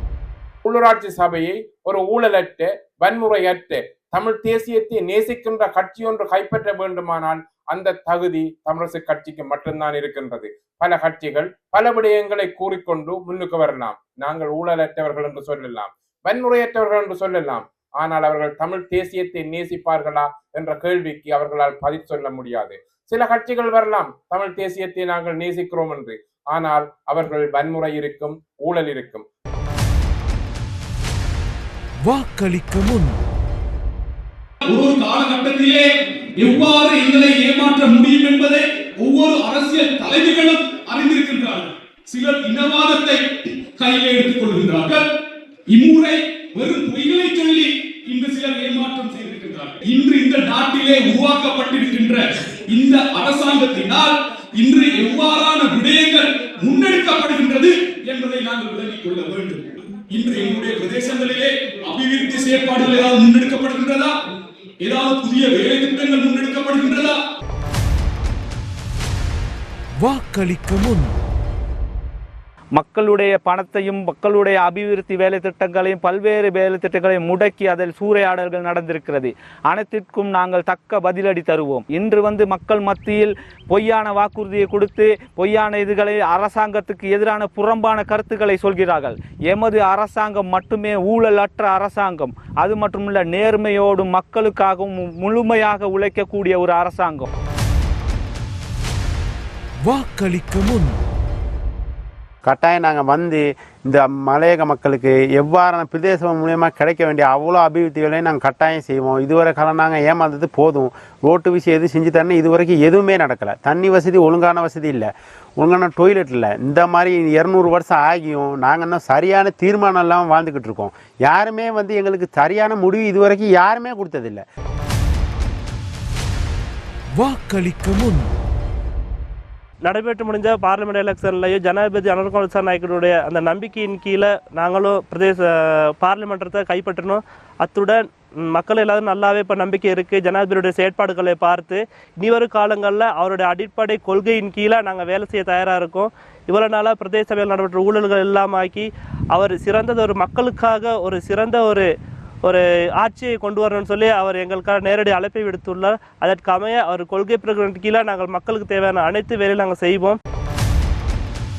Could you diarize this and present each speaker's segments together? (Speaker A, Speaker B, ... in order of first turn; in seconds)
Speaker A: 0.7-29.3
Speaker B: 32.0-33.1, 70.0-71.1, 99.8-101.0, 127.1-128.3
Speaker C: 34.6-45.1, 45.7-64.2, 64.8-67.2
Speaker D: 72.7-97.3
Speaker E: 102.4-124.4
Speaker F: 129.8-151.9, 152.4-160.2